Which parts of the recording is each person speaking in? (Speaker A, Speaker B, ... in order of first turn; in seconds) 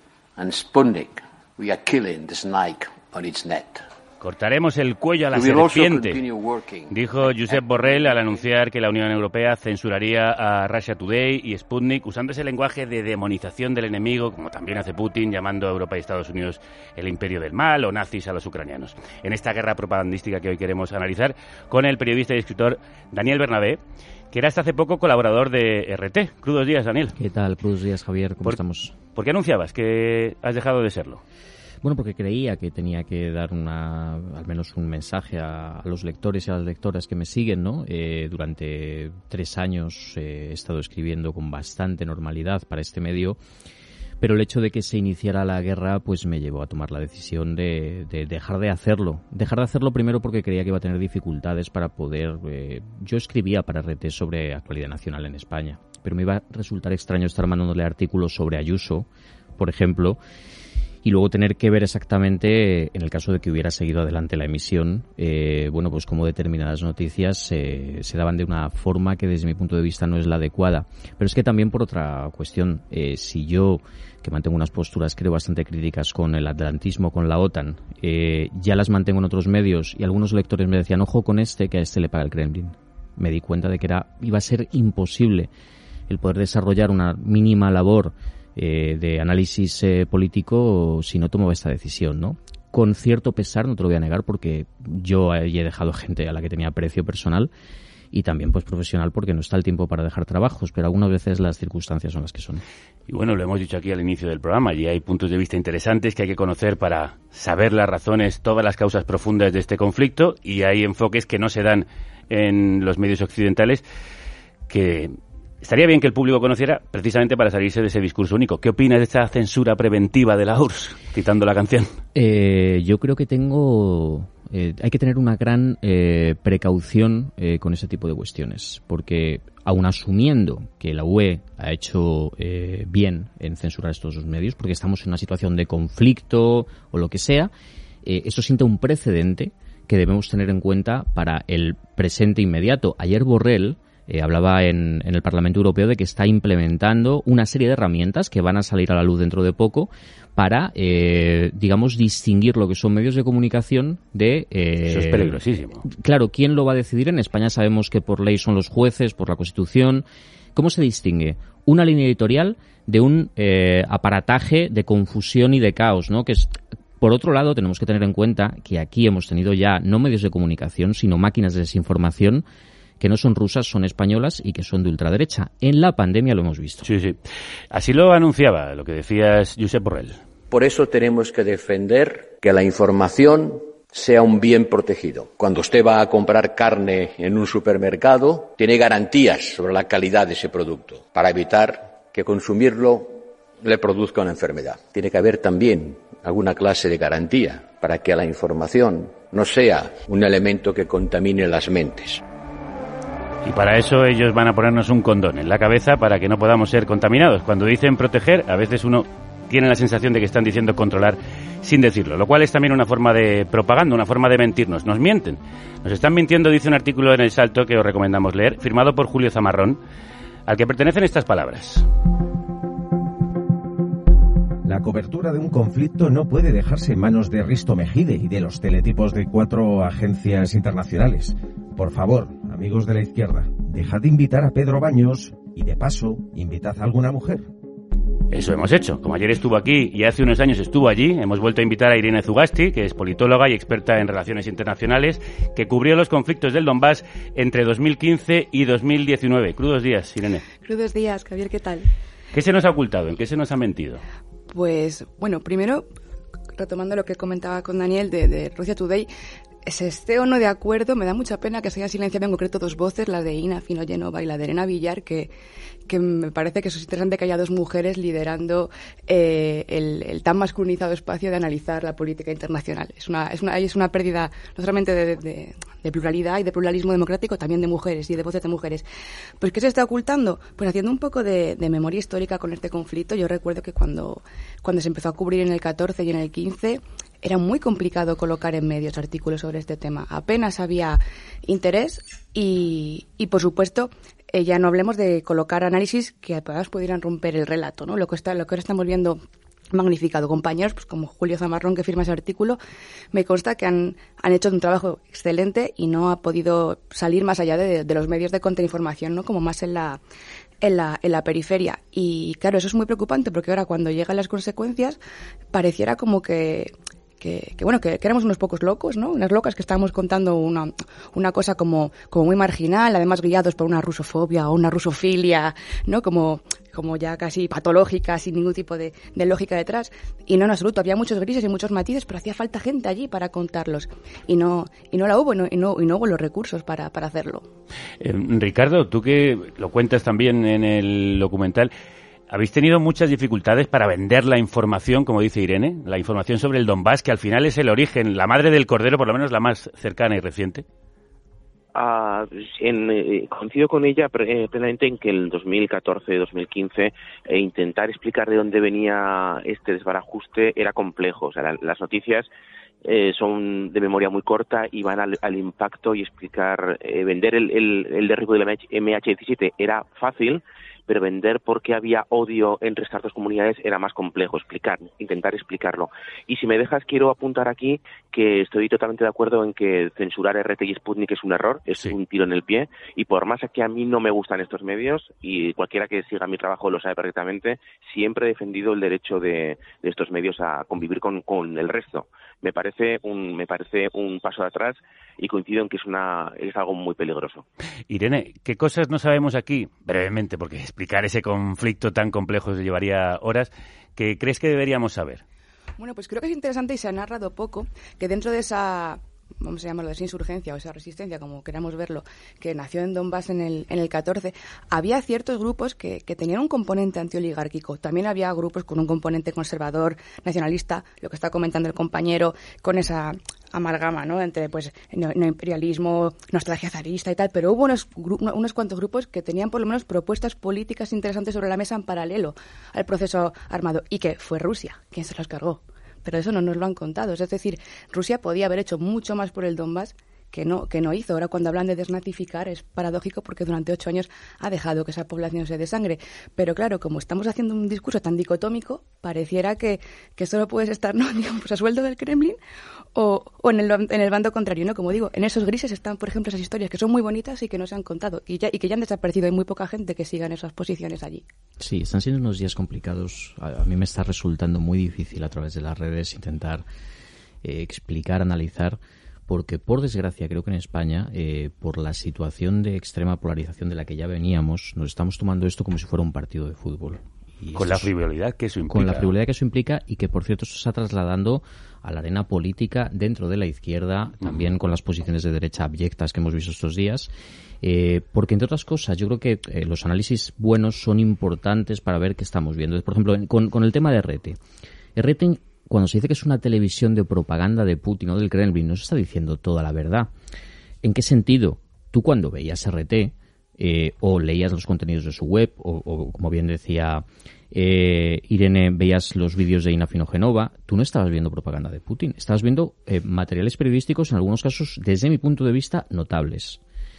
Speaker A: 0.4-3.9, 5.3-8.4, 180.5-202.2
Speaker B: 4.2-6.2, 6.9-23.8, 24.3-27.1, 29.1-31.2, 103.1-113.8, 114.7-121.9, 154.9-155.8, 176.8-177.2, 177.7-180.2, 203.4-219.8, 220.5-221.8, 238.3-250.4, 252.3-254.0, 338.0-341.7, 342.3-350.6, 397.9-405.2, 477.6-479.1
Speaker C: 27.1-28.9, 31.8-43.4, 44.2-60.2, 61.0-85.5, 86.1-97.5, 98.1-102.6, 122.2-137.5, 138.0-160.0, 160.5-172.4, 173.0-176.8, 461.6-466.6, 467.4-477.9, 478.7-487.1, 487.6-494.4, 494.9-500.1, 500.8-516.6
Speaker D: 224.6-237.4
Speaker E: 250.6-251.9, 254.5-255.9, 256.5-259.1, 259.6-265.3, 265.9-278.9, 279.4-299.2, 299.7-302.6, 303.1-310.0, 310.6-315.0, 315.5-337.5, 405.8-452.4, 452.9-461.3
Speaker F: 351.7-362.3, 362.8-397.4